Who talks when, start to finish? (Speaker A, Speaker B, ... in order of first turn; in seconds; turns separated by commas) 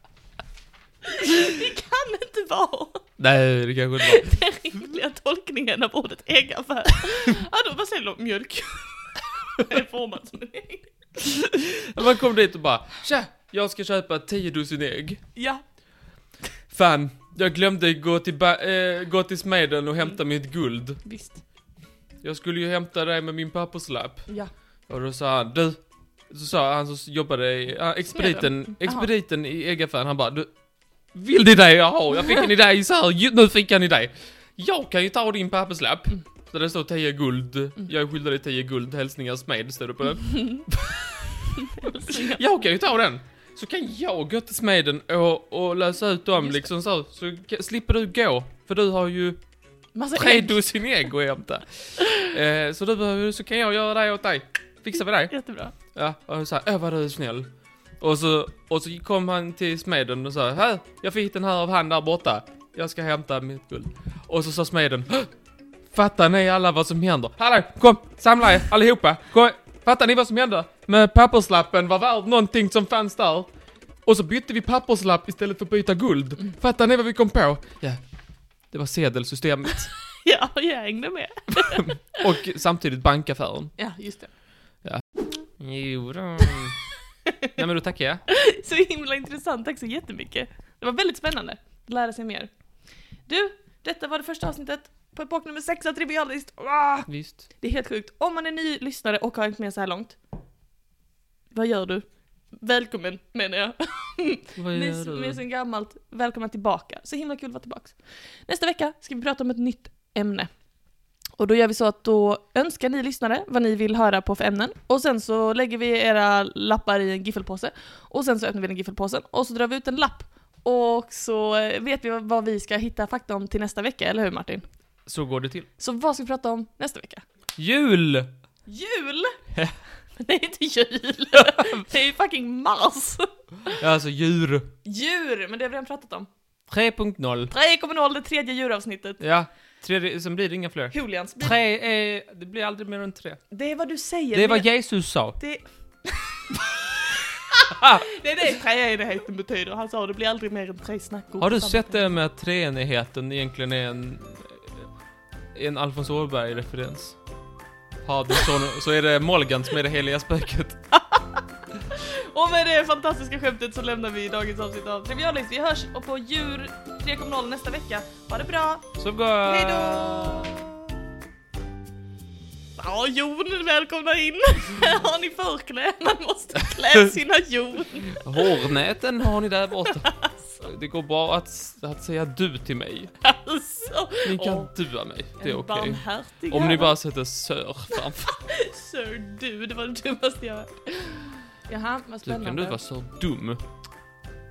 Speaker A: 1.0-3.1, Speaker B: 3.2-4.4, Speaker A: 4.0-10.9, Speaker B: 11.5-15.2, Speaker A: 15.3-15.6, Speaker B: 16.7-21.0, Speaker A: 21.0-21.4, Speaker B: 22.2-24.3, Speaker B: 24.9-30.5, Speaker A: 28.1-29.1, Speaker B: 31.1-49.4, Speaker A: 40.2-40.6, Speaker A: 41.6-42.4, Speaker A: 46.4-46.7, Speaker A: 50.0-50.6, Speaker B: 50.1-55.3, Speaker A: 52.0-52.3, Speaker A: 55.3-55.7, Speaker B: 55.9-57.5, Speaker B: 58.0-65.3, Speaker B: 65.9-73.5, Speaker B: 74.0-78.0, Speaker B: 78.7-79.9, Speaker A: 80.2-82.0, Speaker B: 81.7-83.7, Speaker A: 83.8-84.3, Speaker B: 85.6-86.8, Speaker A: 87.3-87.5, Speaker B: 87.5-88.2, Speaker A: 88.3-92.5, Speaker A: 93.3-97.1, Speaker B: 97.1-97.4, Speaker A: 97.6-100.2, Speaker A: 101.5-110.5, Speaker B: 104.6-105.4, Speaker A: 111.4-124.7, Speaker B: 125.1-125.7, Speaker A: 125.8-127.2, Speaker B: 127.6-128.3, Speaker A: 128.7-129.4, Speaker A: 130.2-133.8, Speaker B: 131.4-131.7, Speaker B: 133.8-134.7, Speaker A: 134.8-136.3, Speaker B: 136.7-137.5, Speaker A: 137.5-139.2, Speaker B: 139.2-143.4, Speaker A: 140.9-141.6, Speaker A: 143.5-144.7, Speaker B: 144.3-145.4, Speaker A: 145.4-146.7, Speaker A: 147.5-152.1, Speaker B: 147.7-148.1, Speaker B: 151.4-154.8, Speaker B: 155.5-157.2, Speaker B: 158.0-160.8, Speaker A: 160.9-170.8, Speaker B: 169.0-170.6, Speaker A: 172.8-178.2, Speaker B: 178.1-183.1, Speaker A: 180.0-180.6, Speaker A: 183.2-184.7, Speaker B: 184.2-188.4, Speaker A: 185.4-186.9, Speaker A: 188.2-192.8, Speaker B: 192.2-193.6